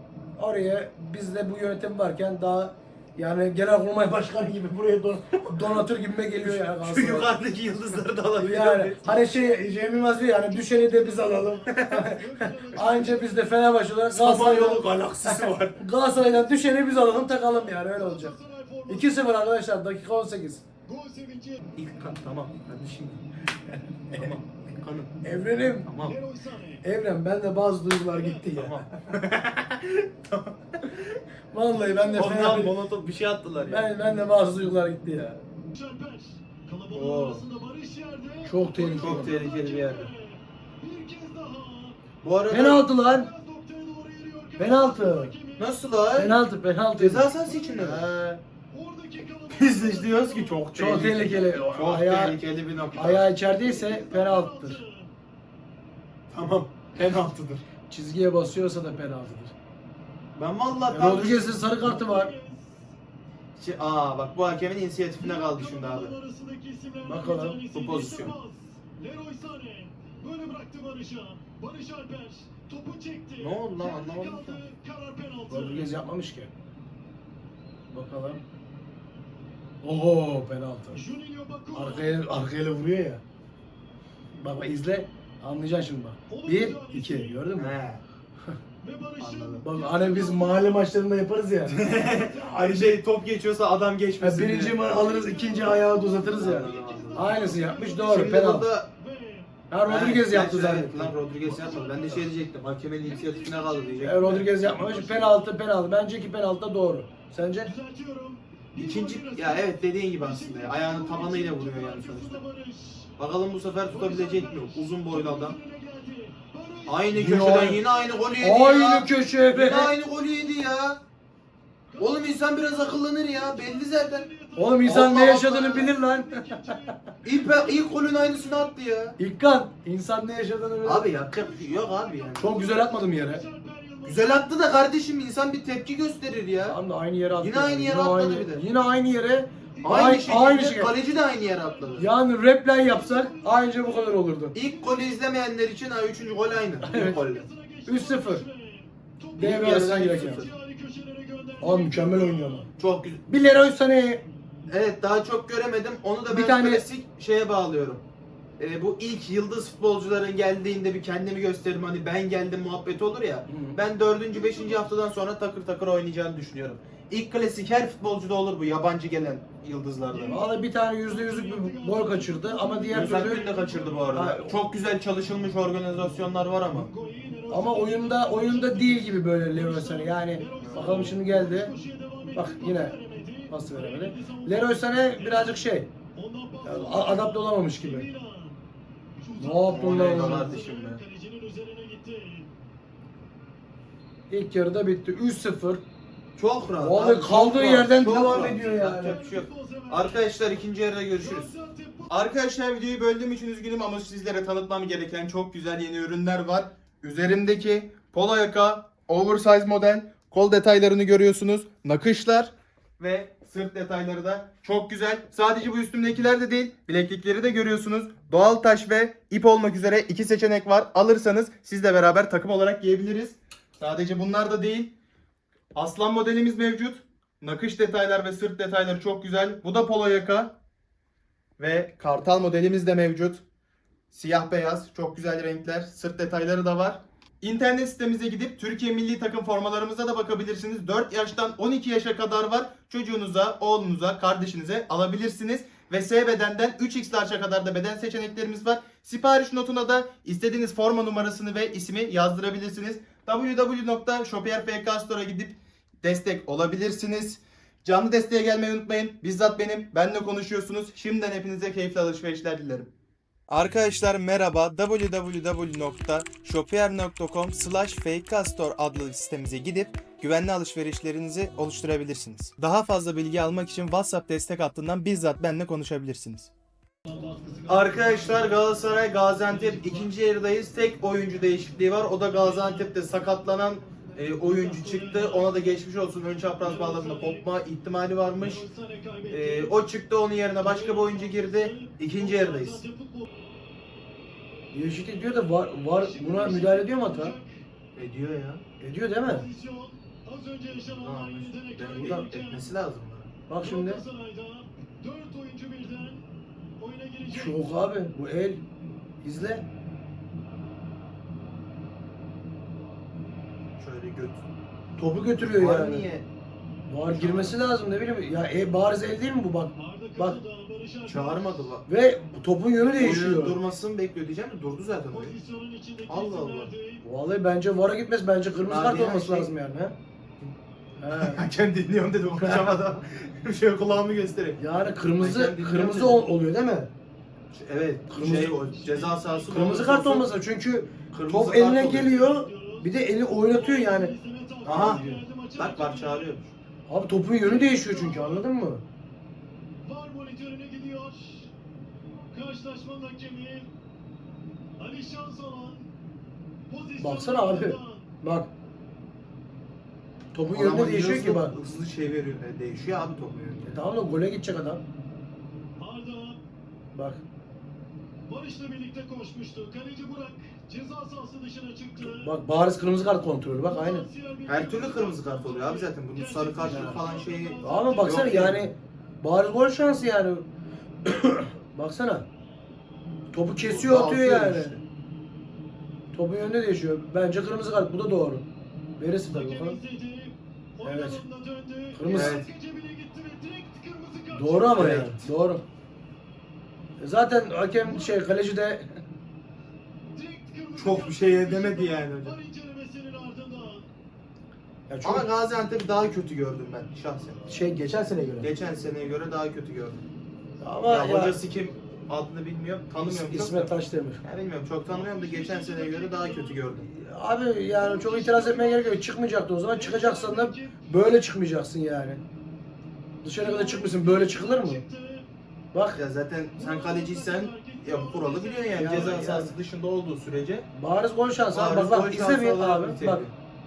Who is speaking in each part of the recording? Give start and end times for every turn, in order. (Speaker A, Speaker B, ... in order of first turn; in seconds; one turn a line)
Speaker A: 0.4-7.3
Speaker B: 5.4-5.8
Speaker B: 6.3-9.2
Speaker A: 8.4-18.4
Speaker C: 10.2-13.6
Speaker B: 11.7-12.1
Speaker B: 14.1-15.8
Speaker C: 16.5-19.4
Speaker A: 18.9-20.6
Speaker C: 20.9-21.7
Speaker B: 21.8-23.2
Speaker B: 24.1-25.1
Speaker A: 25.2-25.9
Speaker B: 25.9-26.1
Speaker C: 26.0-26.9
Speaker A: 26.8-28.9
Speaker C: 28.1-28.5
Speaker B: 28.5-31.2
Speaker A: 31.5-32.8
Speaker C: 31.8-32.6
Speaker B: 32.1-33.9
Speaker A: 33.7-35.4
Speaker C: 35.7-42.0
Speaker B: 36.9-37.4
Speaker A: 38.5-39.4
Speaker B: 38.9-40.1
Speaker B: 42.2-42.8
Speaker A: 42.5-43.3
Speaker C: 42.6-45.9
Speaker A: 44.6-45.3
Speaker B: 45.6-46.4
Speaker A: 46.1-48.1
Speaker B: 47.0-48.4
Speaker C: 47.3-48.1
Speaker C: 48.7-51.5
Speaker B: 49.5-53.3
Speaker A: 50.8-52.4
Speaker A: 52.9-54.8
Speaker C: 53.4-55.1
Speaker B: 56.3-57.6
Speaker A: 57.9-59.5
Speaker B: 60.4-61.6
Speaker A: 60.9-62.3
Speaker C: 61.3-62.9
Speaker B: 63.6-66.2
Speaker C: 65.2-76.0
Speaker A: 67.0-67.6
Speaker B: 67.7-68.3
Speaker B: 73.4-74.6
Speaker A: 75.5-76.5
Speaker A: 77.9-78.4
Speaker A: 79.8-81.0
Speaker C: 80.9-82.3
Speaker A: 81.7-83.2
Speaker A: 84.3-87.8
Speaker C: 86.3-87.4
Speaker B: 87.6-88.0
Speaker C: 88.8-90.9
Speaker B: 89.2-89.7
Speaker A: 89.6-92.8
Speaker B: 91.7-94.8
Speaker C: 91.8-92.9
Speaker A: 94.2-98.7
Speaker C: 94.8-99.5
Speaker B: 96.4-97.4
Speaker B: 98.1-98.9
Speaker A: 99.7-101.1
Speaker B: 99.9-104.5
Speaker C: 101.5-102.3
Speaker C: 103.0-105.5
Speaker A: 104.0-107.7
Speaker C: 107.6-113.1
Speaker B: 108.8-112.4
Speaker B: 113.2-115.6
Speaker C: 113.9-117.9
Speaker B: 116.9-121.0
Speaker A: 117.1-117.8
Speaker A: 118.4-119.9
Speaker C: 121.9-128.7
Speaker B: 122.0-124.3
Speaker A: 124.6-127.0
Speaker B: 124.8-125.9
Speaker B: 127.2-129.2
Speaker A: 129.2-131.1
Speaker B: 130.8-132.5
Speaker C: 131.2-134.4
Speaker A: 132.4-133.4
Speaker B: 134.1-136.8
Speaker A: 136.6-140.9
Speaker B: 137.4-138.7
Speaker C: 139.8-145.3
Speaker B: 139.8-142.1
Speaker A: 142.0-144.5
Speaker B: 144.5-147.5
Speaker A: 146.8-147.2
Speaker C: 146.8-152.7
Speaker A: 147.9-148.4
Speaker A: 149.4-150.5
Speaker B: 149.4-150.5
Speaker A: 151.6-152.7
Speaker B: 152.8-153.2
Speaker A: 153.3-154.2
Speaker B: 154.7-158.0
Speaker A: 156.3-156.8
Speaker B: 158.6-170.4
Speaker A: 163.5-163.8
Speaker C: 164.3-164.9
Speaker C: 170.1-174.4
Speaker A: 170.3-173.5
Speaker B: 172.9-176.9
Speaker A: 174.1-174.5
Speaker C: 176.7-185.6
Speaker A: 177.5-181.7
Speaker B: 180.6-181.2
Speaker A: 182.3-182.9
Speaker A: 183.5-185.9
Speaker C: 186.1-188.6
Speaker A: 186.6-188.1
Speaker C: 189.2-192.5
Speaker A: 189.4-190.6
Speaker B: 189.7-191.0
Speaker A: 194.3-195.8
Speaker B: 196.4-201.5
Speaker A: 196.8-199.2
Speaker C: 198.2-200.4
Speaker C: 201.2-202.1
Speaker B: 202.1-224.9
Speaker B: 225.7-230.6
Speaker B: 231.6-233.4
Speaker B: 234.1-262.9
Speaker B: 263.5-276.5
Speaker C: 277.1-280.1
Speaker B: 277.7-288.6
Speaker C: 282.4-282.9
Speaker C: 284.4-285.7
Speaker C: 286.6-287.5
Speaker C: 288.4-289.8
Speaker B: 289.3-292.8
Speaker C: 290.6-293.3
Speaker A: 294.7-297.4
Speaker C: 296.0-297.6
Speaker B: 297.9-298.6
Speaker A: 298.8-299.5
Speaker C: 299.2-302.7
Speaker B: 300.9-303.3
Speaker A: 303.5-304.0
Speaker C: 303.6-306.3
Speaker C: 306.8-307.7
Speaker A: 307.3-308.6
Speaker A: 309.2-309.7
Speaker B: 313.8-314.4
Speaker A: 315.0-316.1
Speaker B: 315.4-316.3
Speaker A: 316.9-320.4
Speaker B: 317.1-317.6
Speaker C: 319.8-321.5
Speaker B: 321.1-321.9
Speaker A: 321.9-323.6
Speaker B: 322.9-325.4
Speaker C: 325.1-327.1
Speaker B: 326.1-326.7
Speaker A: 327.0-330.0
Speaker B: 328.7-329.5
Speaker A: 331.0-331.4
Speaker B: 331.1-334.6
Speaker A: 332.4-332.8
Speaker A: 334.6-336.9
Speaker B: 335.2-336.2
Speaker B: 337.5-340.3
Speaker A: 338.1-338.6
Speaker C: 338.6-339.9
Speaker A: 339.5-344.1
Speaker B: 341.1-342.1
Speaker C: 341.8-342.9
Speaker C: 343.5-346.4
Speaker B: 344.6-346.5
Speaker A: 344.7-345.2
Speaker A: 346.9-348.9
Speaker C: 347.4-348.4
Speaker C: 349.8-351.5
Speaker C: 352.3-353.7
Speaker C: 354.8-355.9
Speaker C: 356.7-358.1
Speaker A: 357.0-358.5
Speaker A: 360.3-361.6
Speaker B: 360.5-363.8
Speaker A: 363.7-364.8
Speaker C: 365.8-366.4
Speaker A: 366.9-367.2
Speaker C: 368.3-372.3
Speaker A: 372.0-374.1
Speaker C: 373.6-378.5
Speaker B: 374.5-378.7
Speaker A: 376.6-377.0
Speaker A: 377.6-380.5
Speaker A: 381.0-382.3
Speaker A: 383.3-384.8
Speaker B: 383.6-384.8
Speaker A: 386.1-388.5
Speaker A: 389.0-389.8
Speaker C: 389.3-394.9
Speaker A: 390.8-391.2
Speaker A: 391.9-392.4
Speaker B: 392.1-392.5
Speaker A: 394.3-395.6
Speaker B: 394.8-395.3
Speaker A: 397.0-398.9
Speaker C: 397.8-398.2
Speaker C: 400.1-403.9
Speaker B: 400.8-402.4
Speaker A: 404.9-405.3
Speaker B: 405.0-407.4
Speaker A: 407.5-408.5
Speaker B: 408.4-410.0
Speaker A: 410.6-411.4
Speaker B: 410.9-413.7
Speaker A: 413.0-414.2
Speaker B: 414.2-416.9
Speaker C: 414.9-416.7
Speaker A: 416.8-422.2
Speaker C: 417.7-419.0
Speaker C: 419.7-420.9
Speaker A: 423.2-424.8
Speaker C: 423.4-425.3
Speaker A: 425.7-426.0
Speaker B: 425.9-430.7
Speaker C: 426.6-429.3
Speaker A: 428.7-429.6
Speaker A: 430.7-433.3
Speaker B: 431.5-433.3